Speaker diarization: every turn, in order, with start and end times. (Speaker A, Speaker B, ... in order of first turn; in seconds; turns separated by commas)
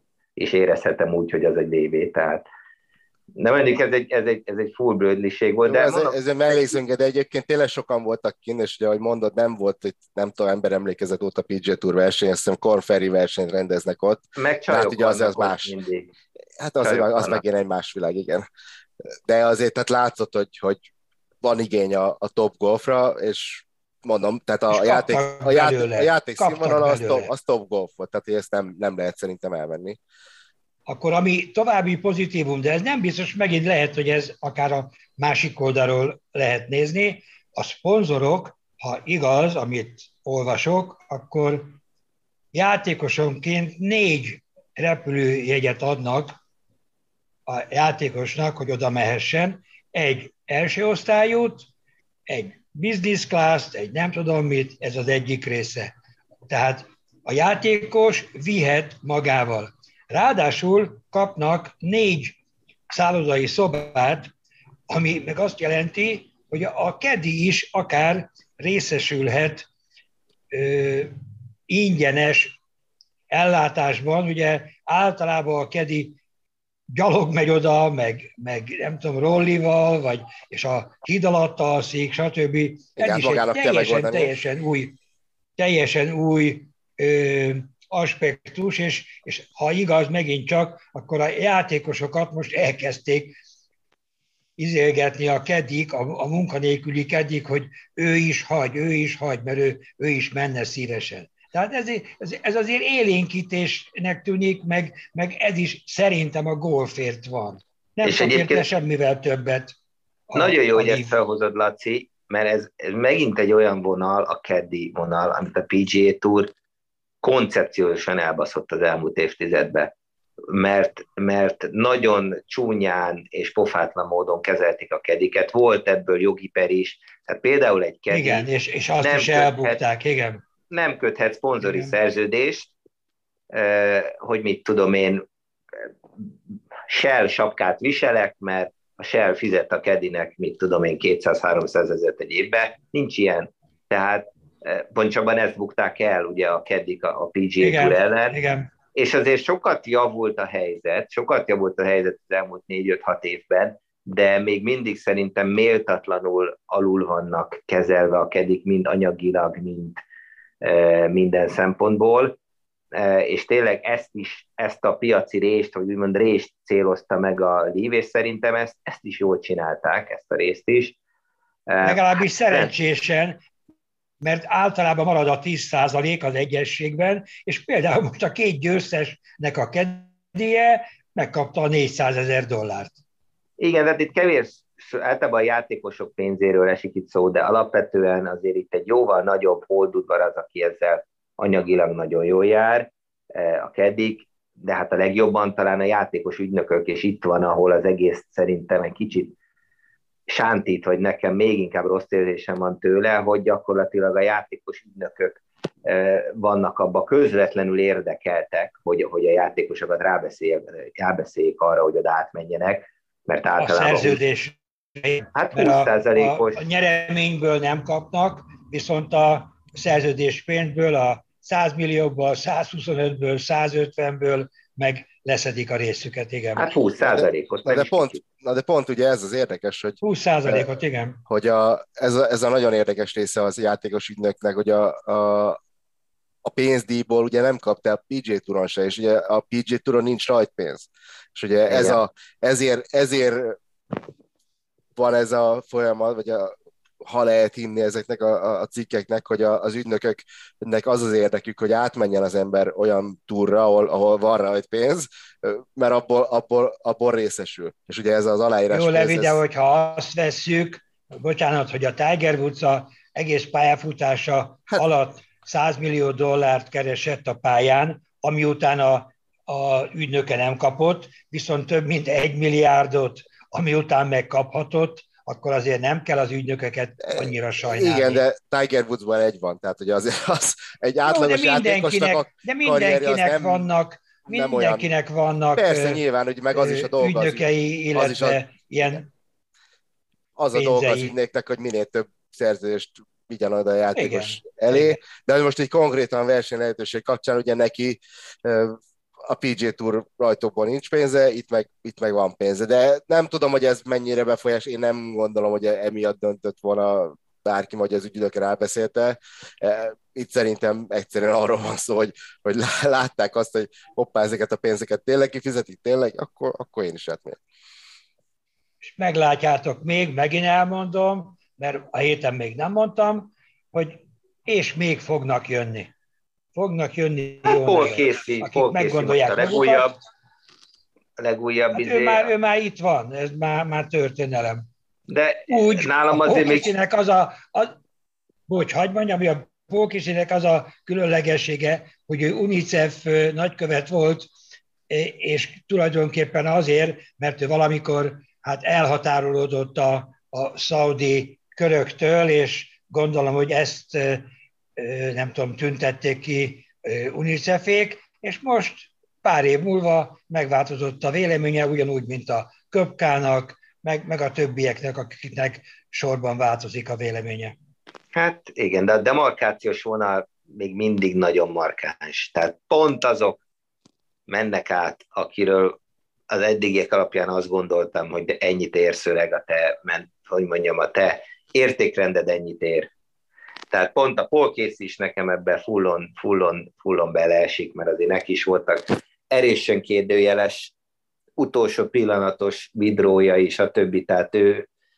Speaker A: 0.4-2.5, Speaker A: 3.4-6.8, Speaker B: 5.6-15.7, Speaker A: 14.4-16.1, Speaker B: 16.6-18.4, Speaker A: 16.8-17.4, Speaker B: 19.3-20.9, Speaker B: 21.4-30.0, Speaker C: 24.7-27.3, Speaker C: 30.9-41.8, Speaker C: 42.5-46.4, Speaker C: 47.5-51.7, Speaker C: 52.3-55.9, Speaker C: 56.5-62.4, Speaker C: 62.9-64.3, Speaker C: 64.9-69.6, Speaker C: 70.5-71.1, Speaker C: 71.7-72.6, Speaker C: 73.3-76.2, Speaker C: 76.9-85.0, Speaker B: 83.0-84.3, Speaker C: 85.6-93.4, Speaker C: 94.6-109.8, Speaker A: 108.0-108.7, Speaker C: 110.3-111.1, Speaker A: 110.3-116.5, Speaker A: 117.2-119.9, Speaker A: 120.5-128.5, Speaker C: 128.1-130.4, Speaker A: 129.0-129.8, Speaker A: 130.7-132.7, Speaker C: 131.6-131.9, Speaker A: 133.5-135.2, Speaker A: 136.9-148.4, Speaker C: 147.6-148.7, Speaker A: 148.9-160.0, Speaker A: 160.6-162.4, Speaker A: 162.9-171.0, Speaker A: 171.7-172.7, Speaker C: 171.8-173.4, Speaker C: 174.2-183.0, Speaker A: 183.6-199.4, Speaker A: 200.3-214.2, Speaker C: 213.6-226.7, Speaker A: 215.3-216.6, Speaker A: 226.6-228.2, Speaker B: 227.0-230.7, Speaker C: 230.0-231.2, Speaker B: 231.3-235.6, Speaker B: 236.4-243.6, Speaker A: 241.7-242.0, Speaker B: 245.0-259.4, Speaker C: 258.7-278.2, Speaker B: 277.0-283.7, Speaker C: 281.1-286.0, Speaker B: 284.3-284.9, Speaker B: 285.6-287.4, Speaker C: 286.5-289.1, Speaker B: 287.9-288.4, Speaker B: 290.4-317.4, Speaker C: 290.5-291.1, Speaker C: 293.9-295.0, Speaker C: 318.8-325.9, Speaker C: 326.6-330.0, Speaker A: 327.5-330.0, Speaker A: 331.2-332.3, Speaker C: 331.7-334.6, Speaker A: 335.1-336.8, Speaker C: 335.5-337.8, Speaker C: 338.5-344.3, Speaker C: 344.9-367.6, Speaker A: 368.1-373.4, Speaker A: 374.3-375.8, Speaker A: 376.3-382.9, Speaker A: 383.7-390.7, Speaker A: 391.4-394.7